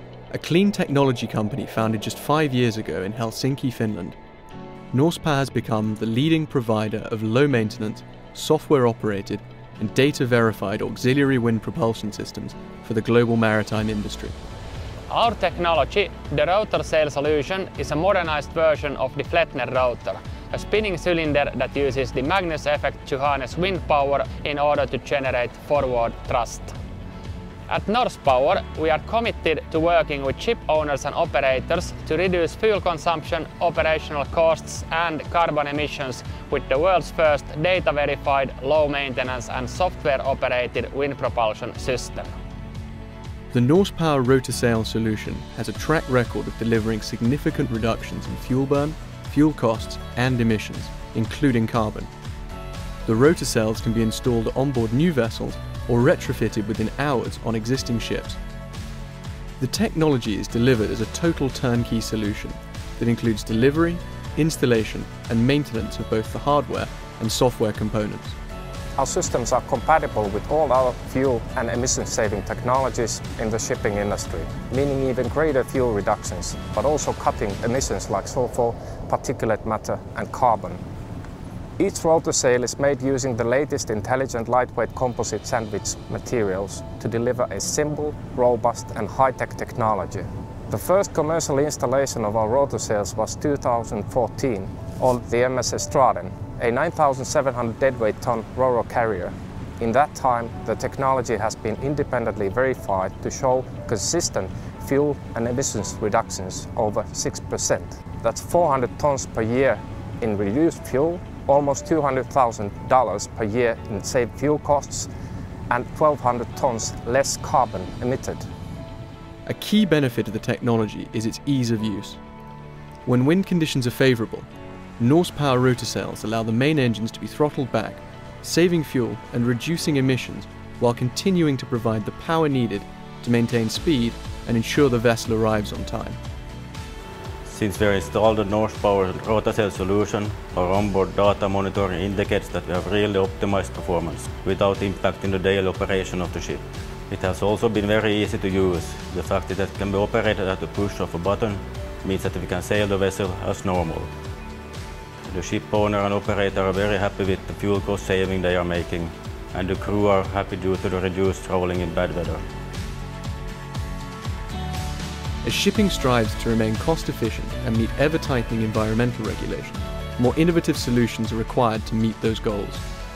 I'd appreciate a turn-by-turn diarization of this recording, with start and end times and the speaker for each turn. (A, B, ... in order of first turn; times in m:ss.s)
0:00.3-0:04.2 A
0:04.9-0:14.4 A
0:15.1-0:26.7 B
0:27.7-0:42.3 B
0:43.5-0:52.1 A
0:53.0-0:58.4 A
0:59.6-1:08.4 A
1:09.0-1:20.8 C
1:21.8-1:55.1 C
1:55.7-1:58.5 C
1:59.5-2:02.2 A
2:03.1-2:04.5 A
2:05.0-2:16.2 A
2:17.5-2:34.1 D
2:35.3-2:42.4 D
2:45.4-2:52.8 A